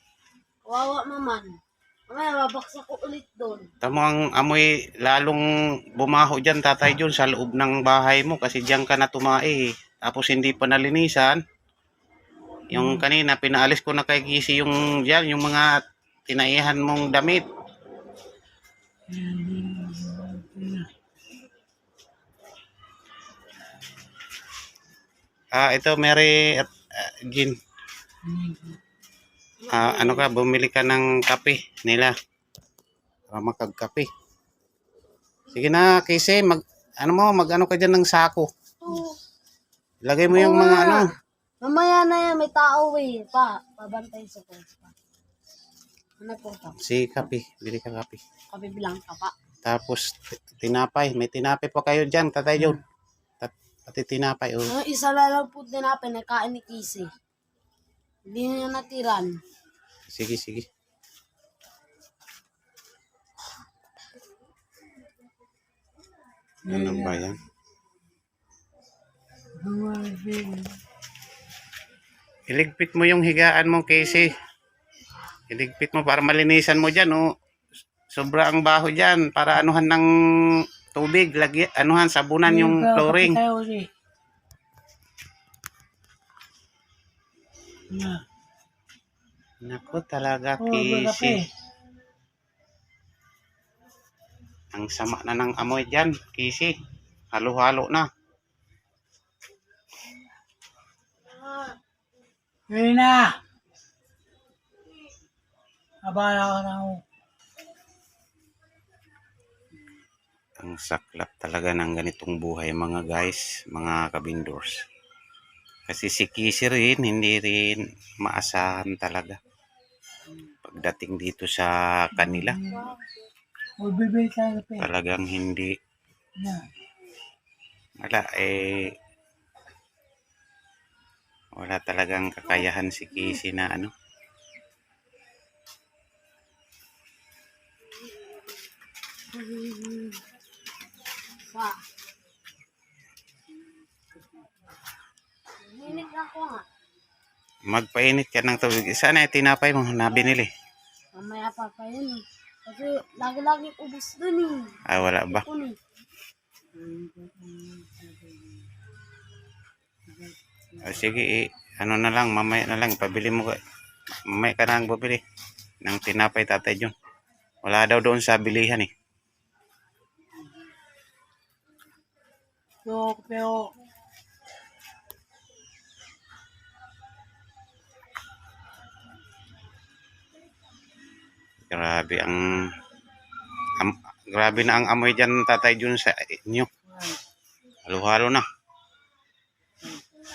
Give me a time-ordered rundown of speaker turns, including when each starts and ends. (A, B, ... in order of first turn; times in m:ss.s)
0:00.7-0:01.6 A
0:02.1-0:03.7 A
0:03.8-0:05.4 B
0:06.0-0:11.4 B
0:12.7-0:17.4 B
0:12.7-0:13.0 C
0:19.1-0:20.9 C
0:25.5-0:27.5 B
0:28.2-0:28.8 C
0:29.6-0:30.3 A
0:29.7-0:32.1 B
0:33.3-0:34.1 B
0:35.5-0:38.5 B
0:38.8-0:39.2 A
0:40.0-0:41.1 B
0:40.3-0:41.0 A
0:41.6-0:44.9 A
0:46.2-0:46.8 A
0:46.8-0:48.2 B
0:48.5-0:49.3 A
0:49.6-0:52.8 B
0:53.4-0:54.7 B
0:54.7-0:57.1 A
0:58.3-0:59.4 A
1:00.1-1:00.7 B
1:06.6-1:07.2 C
1:06.7-1:07.4 B
1:09.6-1:10.8 C
1:12.5-1:14.3 B
1:15.5-1:17.3 B
1:18.1-1:20.1 B
1:20.9-1:23.4 B
1:22.4-1:23.9 C
1:27.9-1:28.2 C
1:29.6-1:31.4 B
1:30.6-1:31.4 C
1:34.7-1:36.7 B
1:37.3-1:38.1 B
1:42.7-1:43.4 C
1:46.0-1:47.0 C
1:50.6-1:54.8 B
1:55.9-1:59.4 B
2:00.6-2:02.6 B
2:02.2-2:03.0 C
2:03.8-2:04.9 C
2:04.8-2:05.7 B
2:06.4-2:06.6 C
2:08.0-2:08.9 B
2:11.6-2:13.9 B
2:19.3-2:20.2 A
2:21.4-2:21.8 A
2:25.6-2:26.6 A
2:27.7-2:30.5 B
2:31.1-2:35.8 A
2:34.9-2:35.4 B
2:36.7-2:38.3 C
2:40.1-2:41.0 C
2:40.8-2:43.6 B
2:44.3-2:45.2 B
2:45.8-2:46.9 B
2:47.6-2:48.9 B
2:52.8-2:53.7 C
3:01.7-3:02.7 B
3:03.8-3:06.7 B
3:06.9-3:07.2 C
3:07.9-3:08.4 B